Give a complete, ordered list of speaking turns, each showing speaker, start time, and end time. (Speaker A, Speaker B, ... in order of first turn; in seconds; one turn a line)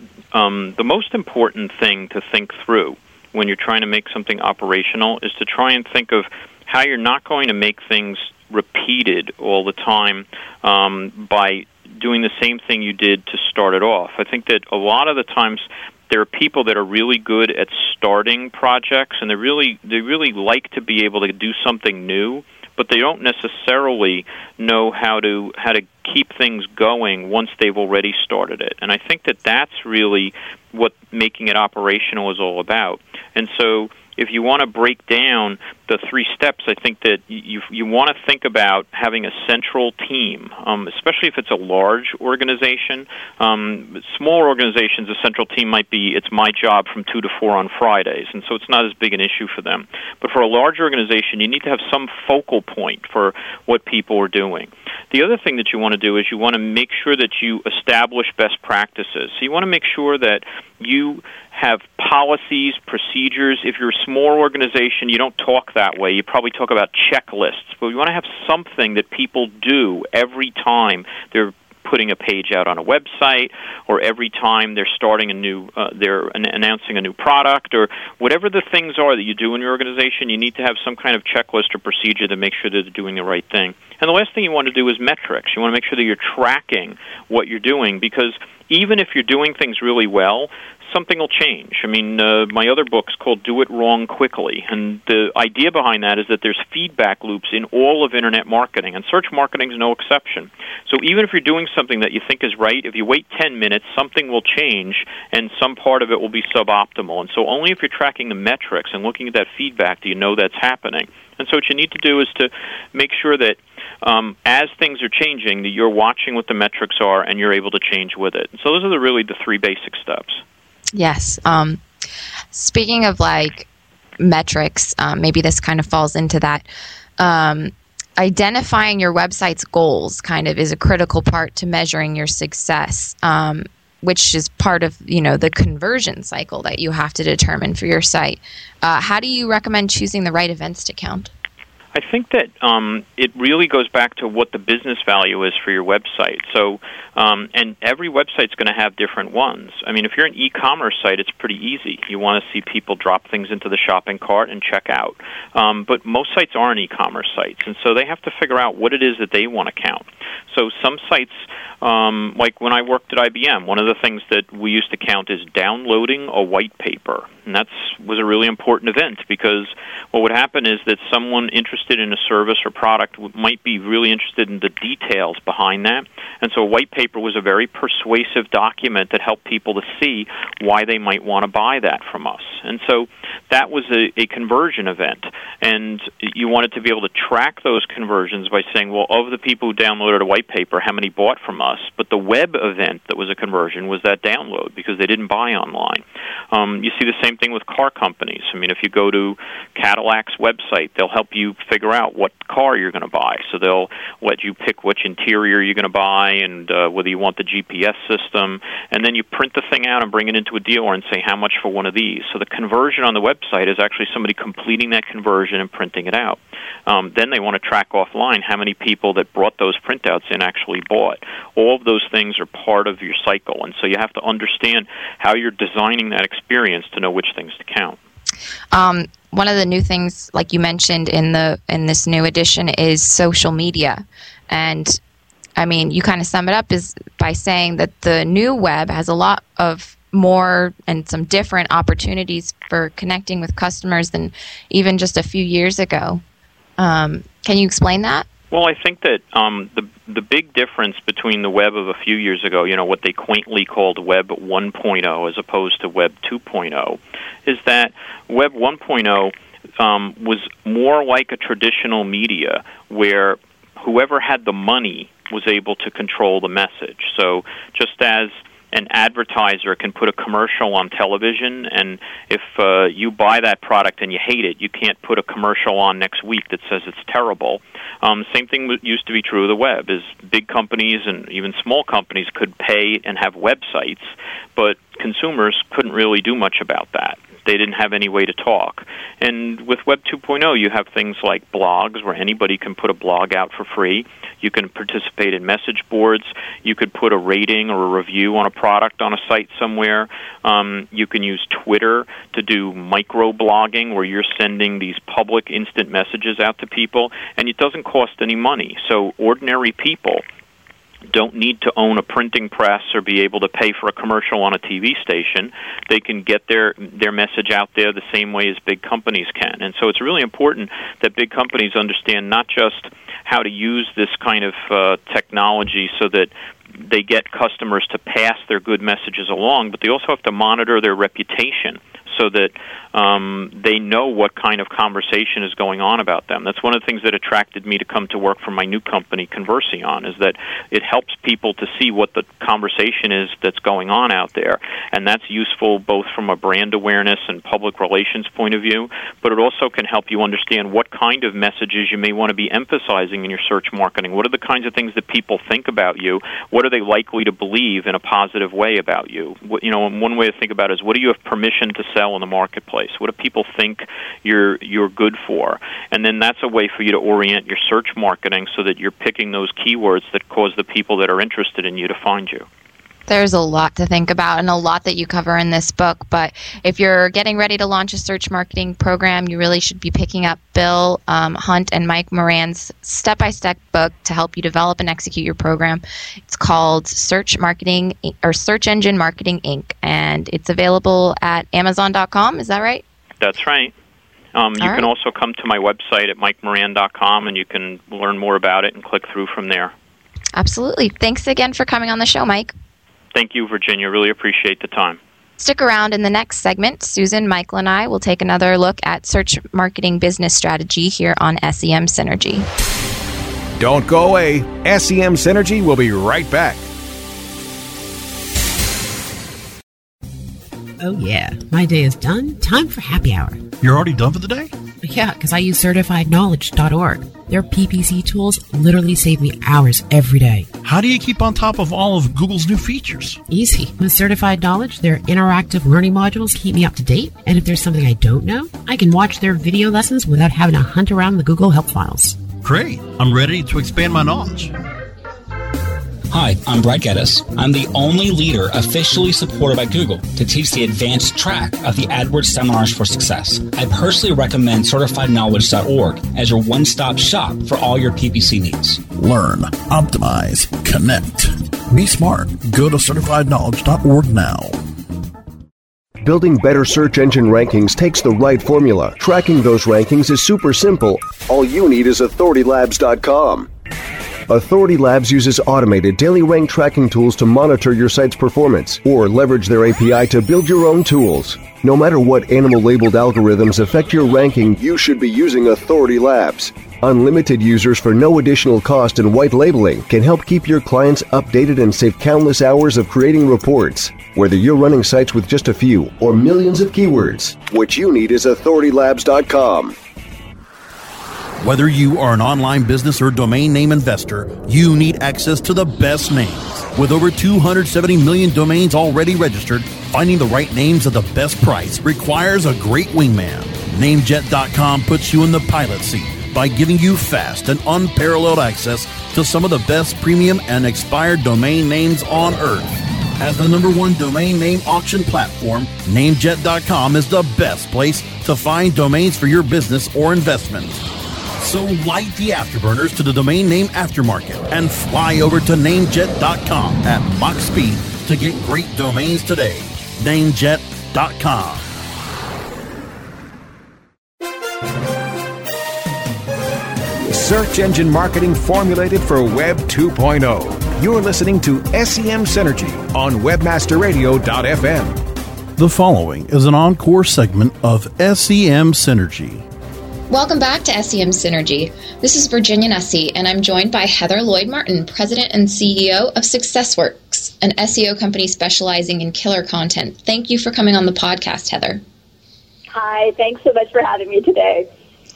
Speaker A: 0.3-120.4
Speaker B: 120.9-121.8
Speaker B: 122.5-123.7
Speaker B: 124.2-126.7
Speaker B: 127.2-141.3
Speaker A: 141.9-228.0
Speaker B: 228.7-235.0
Speaker B: 235.6-246.2
Speaker B: 246.8-248.3
Speaker A: 248.5-310.2
Speaker A: 311.1-372.5
Speaker B: 373.1-392.8
Speaker A: 393.2-393.7
Speaker A: 394.3-399.7
Speaker B: 394.6-394.9
Speaker B: 400.3-402.5
Speaker A: 403.1-405.0
Speaker B: 405.4-412.5
Speaker C: 413.6-416.6
Speaker D: 420.8-423.5
Speaker E: 423.6-424.5
Speaker D: 424.8-430.5
Speaker E: 430.6-433.2
Speaker D: 433.3-442.2
Speaker E: 442.4-444.5
Speaker F: 446.1-458.8
Speaker E: 458.9-464.6
Speaker G: 466.0-473.5
Speaker G: 474.3-499.8
Speaker E: 501.4-530.8
Speaker E: 531.4-541.7
Speaker C: 547.1-555.0
Speaker E: 555.6-559.4
Speaker B: 560.1-571.8
Speaker H: 572.7-574.7